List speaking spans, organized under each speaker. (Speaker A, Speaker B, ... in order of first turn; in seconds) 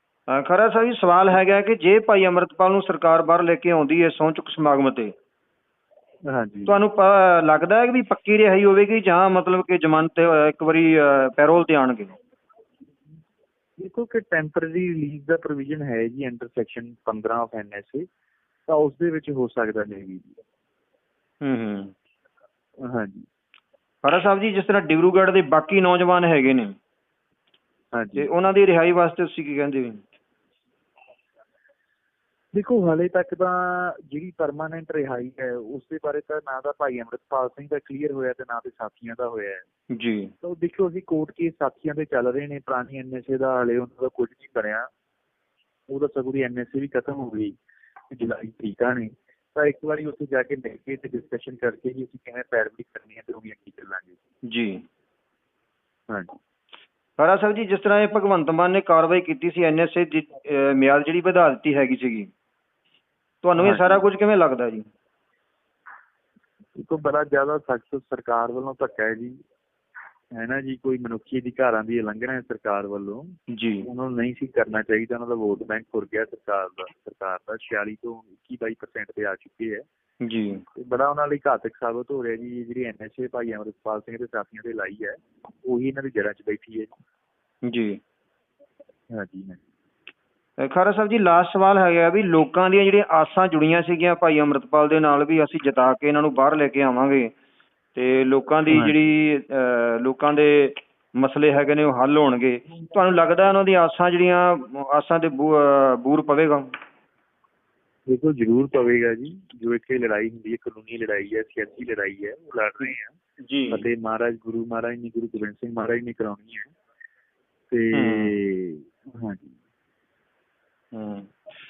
Speaker A: 0.3-5.1, 6.7-12.2, 21.4-21.9, 24.0-26.7, 28.2-30.0, 39.9-40.3, 54.5-54.8, 57.2-62.3, 63.4-64.8, 73.5-73.9, 80.2-80.6, 87.7-88.0, 90.6-97.3, 98.0-106.7, 113.4-113.9, 117.9-118.3, 120.9-121.3
Speaker B: 6.2-6.8, 13.8-18.1, 18.7-20.4, 22.8-23.3, 27.9-28.3, 32.5-39.6, 40.4-44.9, 45.9-47.6, 48.1-54.2, 56.1-56.4, 63.6-64.0, 66.8-69.4, 70.3-79.9, 80.8-86.9, 89.1-89.6, 98.7-99.0, 108.1-113.2, 113.7-116.8, 117.7-119.6